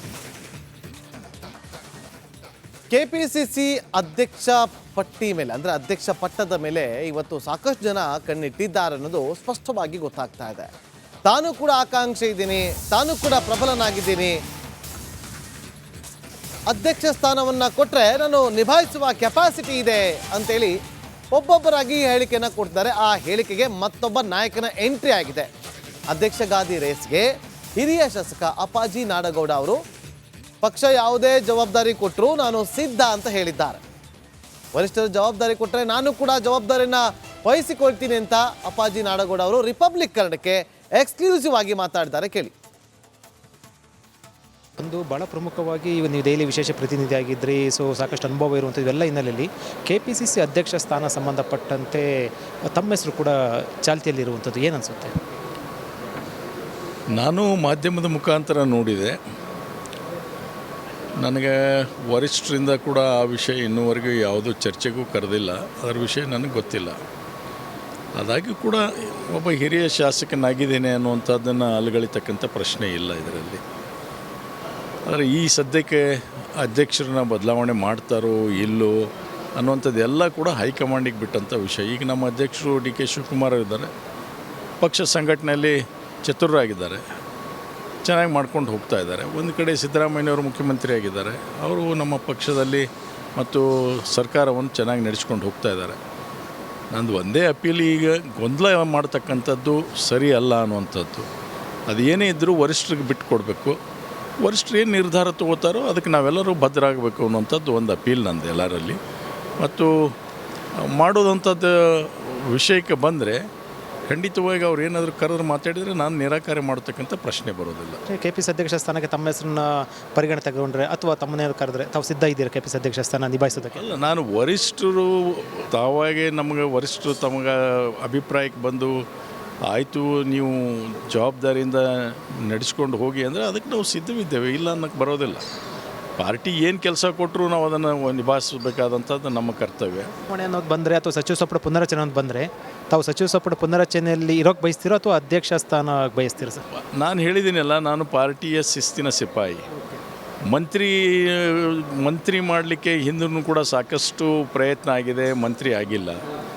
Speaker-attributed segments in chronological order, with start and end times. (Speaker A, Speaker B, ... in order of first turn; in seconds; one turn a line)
Speaker A: 2.9-10.7
Speaker A: 11.2-14.3
Speaker A: 16.7-20.7
Speaker A: 21.3-25.5
Speaker A: 26.1-27.3
Speaker A: 27.8-29.8
Speaker A: 30.6-33.8
Speaker A: 34.8-42.5
Speaker B: 44.8-55.2
Speaker C: 57.1-59.1
Speaker C: 61.2-66.9
Speaker C: 68.2-73.6
Speaker C: 75.1-79.0
Speaker C: 79.6-83.9
Speaker C: 84.8-87.0
Speaker C: 88.0-96.0
Speaker C: 96.9-101.3
Speaker C: 101.9-103.8
Speaker C: 104.4-109.0
Speaker C: 109.6-109.9
Speaker C: 110.9-113.4
Speaker C: 114.1-118.0
Speaker B: 118.1-123.9
Speaker C: 123.7-129.0
Speaker C: 129.7-135.4
Speaker C: 136.2-140.1
Speaker B: 140.3-146.6
Speaker C: 146.7-149.6
Speaker C: 150.5-156.2